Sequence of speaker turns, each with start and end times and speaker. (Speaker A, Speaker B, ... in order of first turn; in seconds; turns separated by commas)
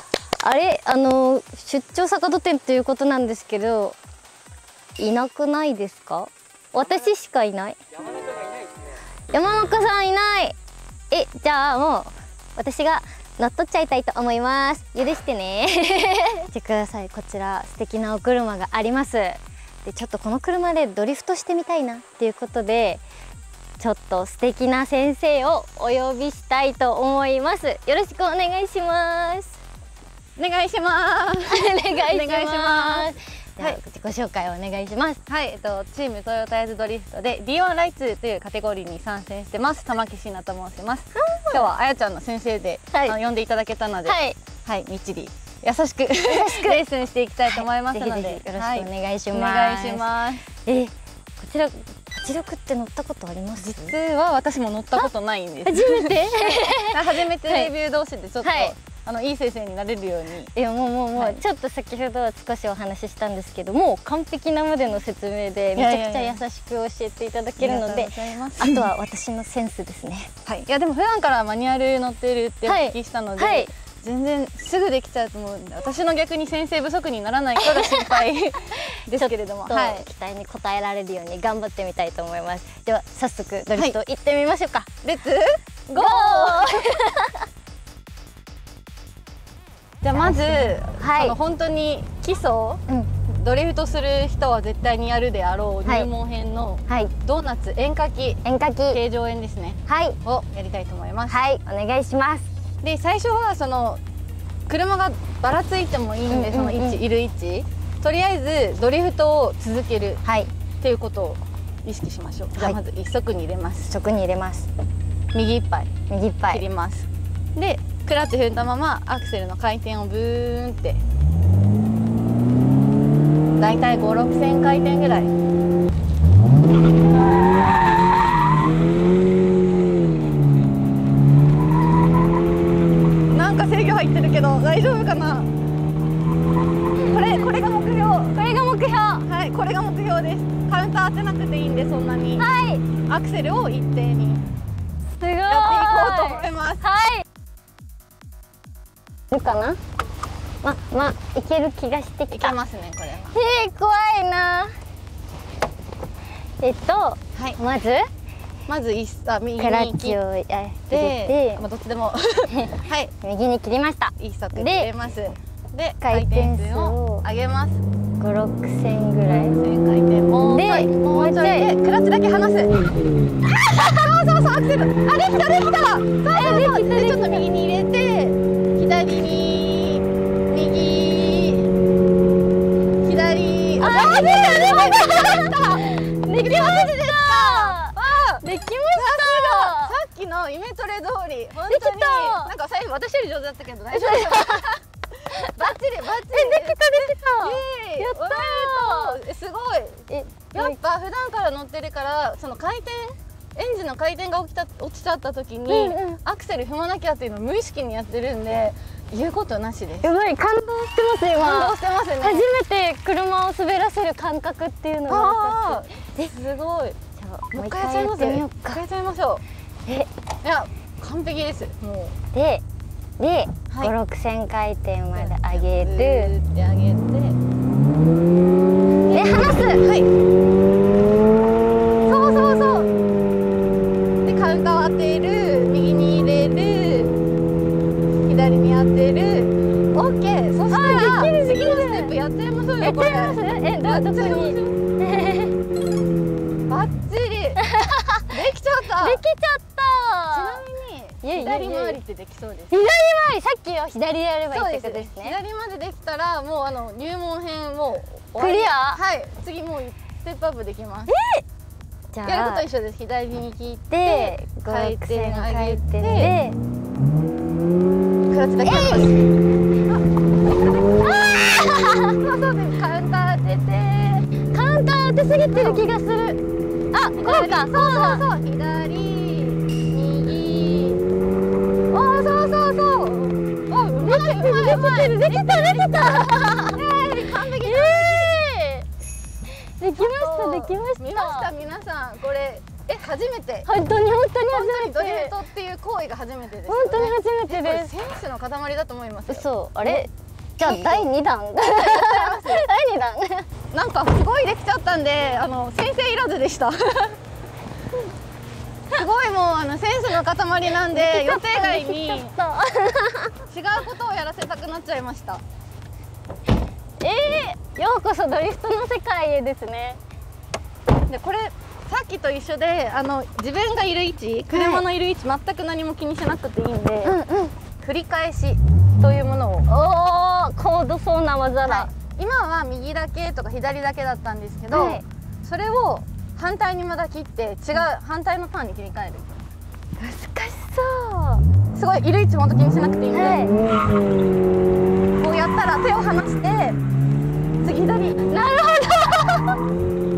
Speaker A: 0.4-4.0, Speaker A: 5.0-7.8, Speaker A: 9.3-10.6, Speaker A: 11.1-23.0, Speaker A: 23.8-29.6, Speaker B: 30.4-33.8, Speaker A: 31.5-35.2, Speaker B: 35.3-50.4, Speaker A: 41.1-41.7, Speaker A: 44.0-44.4, Speaker A: 46.2-46.8, Speaker A: 47.5-50.1, Speaker A: 50.6-53.9, Speaker B: 53.6-60.5, Speaker A: 55.6-57.0, Speaker A: 58.4-58.7, Speaker A: 60.5-70.3, Speaker B: 65.7-66.4, Speaker B: 67.6-68.9, Speaker B: 70.5-80.0, Speaker A: 72.7-73.7, Speaker A: 77.7-78.0, Speaker A: 79.1-84.9, Speaker B: 85.0-86.8, Speaker A: 85.9-87.4, Speaker B: 90.0-101.4, Speaker A: 90.1-91.4, Speaker A: 98.4-99.0, Speaker A: 99.9-100.2, Speaker A: 101.3-102.5, Speaker B: 102.8-104.0, Speaker B: 104.7-110.2, Speaker A: 106.3-107.0, Speaker A: 110.2-110.5, Speaker B: 110.8-113.9, Speaker A: 113.9-114.7, Speaker B: 115.3-115.9, Speaker A: 116.1-116.6, Speaker B: 116.5-121.0, Speaker B: 123.6-125.3, Speaker B: 133.3-135.5, Speaker B: 137.0-138.4, Speaker A: 138.3-139.2, Speaker B: 139.2-142.5, Speaker A: 142.4-142.8, Speaker B: 143.1-144.4, Speaker A: 145.1-147.2, Speaker B: 145.4-146.8, Speaker A: 149.3-149.8, Speaker A: 150.6-152.6, Speaker B: 152.3-153.4, Speaker A: 153.3-154.7, Speaker A: 156.6-158.1, Speaker B: 158.7-160.2, Speaker A: 159.6-161.6, Speaker B: 160.9-163.1, Speaker A: 163.2-164.9, Speaker B: 164.2-167.8, Speaker A: 166.0-167.2, Speaker A: 168.2-169.6, Speaker B: 169.3-172.7, Speaker A: 170.4-171.7, Speaker B: 173.7-181.7, Speaker A: 176.3-177.4, Speaker B: 183.0-194.8, Speaker A: 183.8-189.9, Speaker A: 191.7-192.5, Speaker A: 193.9-194.6, Speaker A: 195.3-195.7, Speaker B: 195.5-210.1, Speaker A: 196.3-199.2, Speaker A: 200.1-200.8, Speaker A: 205.7-206.2, Speaker A: 210.0-216.3, Speaker B: 211.3-212.4, Speaker B: 215.1-217.0, Speaker A: 217.2-218.8, Speaker B: 217.5-219.4, Speaker B: 220.4-222.2, Speaker A: 222.3-222.6, Speaker A: 223.2-226.3, Speaker B: 225.1-227.4, Speaker B: 229.1-230.1, Speaker A: 229.1-229.8, Speaker B: 232.1-232.9, Speaker B: 234.2-237.2, Speaker B: 238.2-244.8, Speaker A: 240.7-242.1, Speaker A: 242.8-245.5, Speaker B: 246.7-247.6, Speaker A: 247.7-248.2, Speaker B: 248.3-249.2, Speaker A: 249.0-250.6, Speaker B: 250.3-252.8, Speaker A: 251.2-252.0, Speaker A: 252.7-255.4, Speaker B: 254.5-261.1, Speaker A: 258.4-259.0, Speaker A: 261.1-261.4, Speaker A: 262.1-262.7, Speaker B: 262.2-266.3, Speaker A: 263.9-266.6, Speaker B: 268.3-269.2, Speaker A: 268.6-269.1, Speaker A: 270.9-272.2, Speaker B: 272.1-274.3, Speaker A: 274.5-276.4, Speaker B: 275.5-275.8, Speaker A: 276.9-278.2, Speaker B: 277.1-281.0, Speaker B: 281.9-288.4, Speaker A: 284.0-286.8, Speaker A: 287.6-288.9, Speaker A: 289.8-291.5, Speaker B: 290.0-293.7, Speaker A: 293.6-295.3, Speaker B: 294.5-300.0, Speaker A: 296.7-297.9, Speaker A: 299.3-303.5, Speaker B: 300.6-301.1, Speaker B: 301.6-302.7, Speaker B: 303.7-307.1, Speaker B: 308.9-312.3, Speaker A: 310.9-313.3, Speaker B: 313.5-315.4, Speaker A: 317.0-320.0, Speaker B: 321.1-327.1, Speaker A: 324.5-324.8, Speaker A: 327.0-327.5, Speaker B: 327.8-329.7, Speaker A: 329.7-331.9, Speaker B: 331.6-339.4, Speaker A: 334.7-335.0, Speaker A: 340.0-341.4, Speaker B: 341.7-343.4, Speaker A: 343.1-343.6, Speaker B: 345.2-346.8, Speaker B: 347.6-348.3, Speaker A: 348.2-349.5